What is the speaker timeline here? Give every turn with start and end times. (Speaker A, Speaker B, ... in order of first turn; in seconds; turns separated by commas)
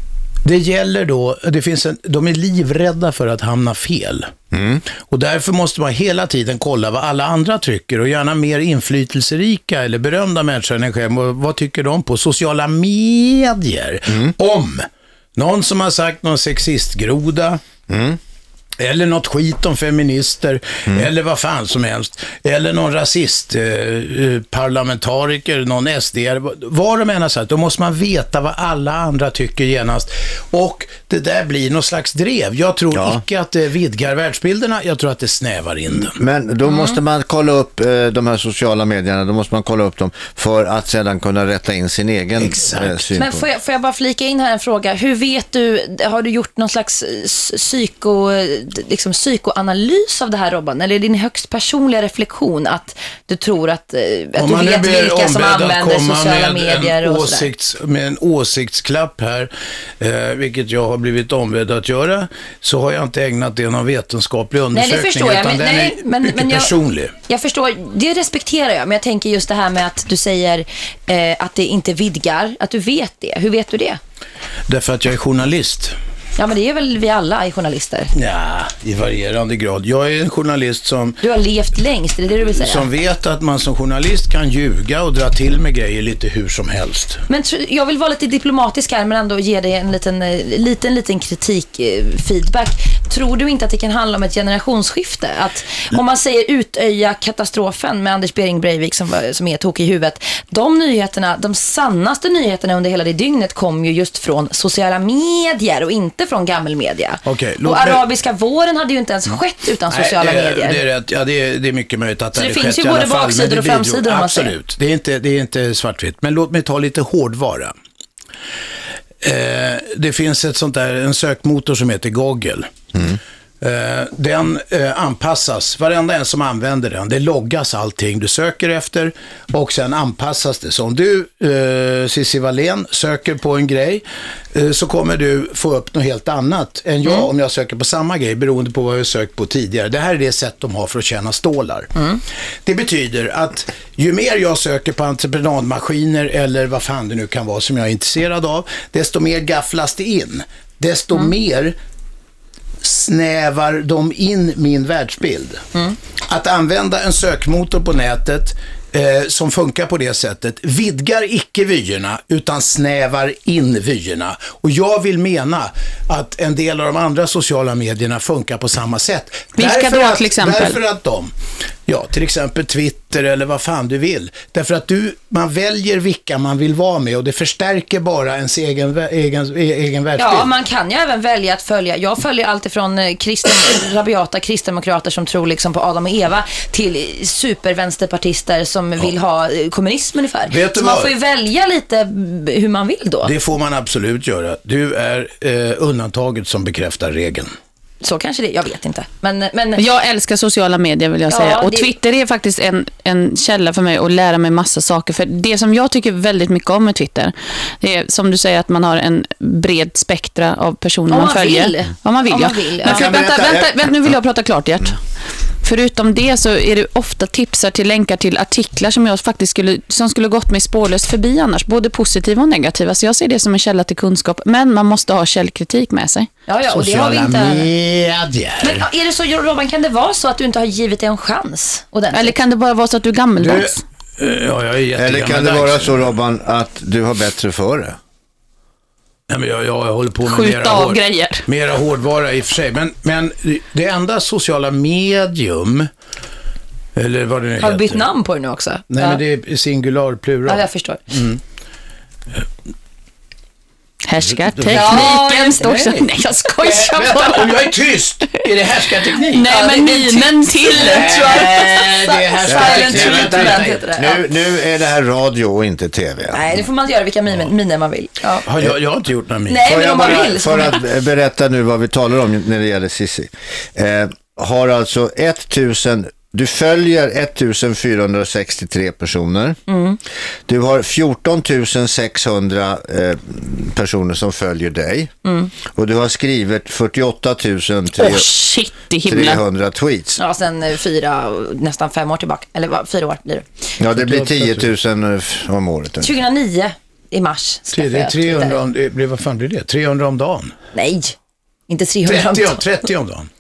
Speaker A: 0.4-4.3, Speaker B: 4.5-4.8, Speaker A: 5.0-17.6, Speaker B: 14.1-14.3, Speaker B: 17.9-18.2, Speaker A: 18.8-36.2, Speaker B: 32.9-33.2, Speaker B: 36.1-43.5, Speaker C: 36.7-37.0, Speaker A: 42.4-43.1, Speaker C: 43.2-57.5, Speaker A: 54.4-67.1, Speaker C: 64.7-66.7, Speaker C: 67.3-74.0, Speaker A: 74.7-76.0, Speaker C: 76.4-78.1, Speaker A: 78.1-81.2, Speaker C: 81.2-82.9, Speaker A: 82.5-87.2, Speaker C: 87.3-110.8, Speaker A: 107.2-108.0, Speaker A: 109.9-117.7, Speaker C: 112.3-114.5, Speaker A: 119.2-122.7, Speaker A: 123.6-141.9, Speaker C: 137.0-137.3, Speaker C: 142.0-142.2, Speaker A: 142.7-151.8, Speaker A: 152.8-155.7, Speaker A: 156.3-171.3, Speaker D: 169.6-170.8, Speaker A: 171.9-180.5, Speaker C: 180.2-193.3, Speaker A: 190.5-191.1, Speaker A: 193.2-197.5, Speaker C: 198.0-199.8, Speaker D: 199.8-215.0, Speaker C: 201.3-201.9, Speaker C: 211.1-213.1, Speaker B: 212.8-213.9, Speaker D: 215.6-226.3, Speaker C: 226.5-227.7, Speaker A: 226.7-228.9, Speaker C: 228.6-232.4, Speaker D: 232.1-233.8, Speaker A: 233.4-236.1, Speaker B: 234.9-238.0, Speaker A: 239.3-245.9, Speaker D: 240.2-241.4, Speaker A: 246.9-248.1, Speaker C: 247.6-249.2, Speaker A: 248.9-251.4, Speaker C: 250.5-251.0, Speaker D: 254.1-257.7, Speaker A: 254.2-255.2, Speaker C: 254.7-256.0, Speaker A: 256.6-259.5, Speaker D: 259.3-261.6, Speaker C: 259.5-264.2, Speaker A: 260.7-263.8, Speaker B: 262.5-266.4, Speaker C: 266.3-268.5, Speaker A: 268.5-269.7, Speaker C: 269.5-270.8, Speaker B: 269.6-279.6, Speaker C: 279.7-280.0, Speaker B: 280.5-285.1, Speaker C: 285.2-285.5, Speaker B: 285.7-288.3, Speaker D: 288.0-289.4, Speaker B: 289.0-290.2, Speaker C: 290.2-293.5, Speaker B: 293.8-296.1, Speaker A: 293.9-294.7, Speaker C: 296.0-298.6, Speaker A: 297.7-300.6, Speaker C: 300.7-301.2, Speaker C: 301.7-302.6, Speaker A: 302.1-303.3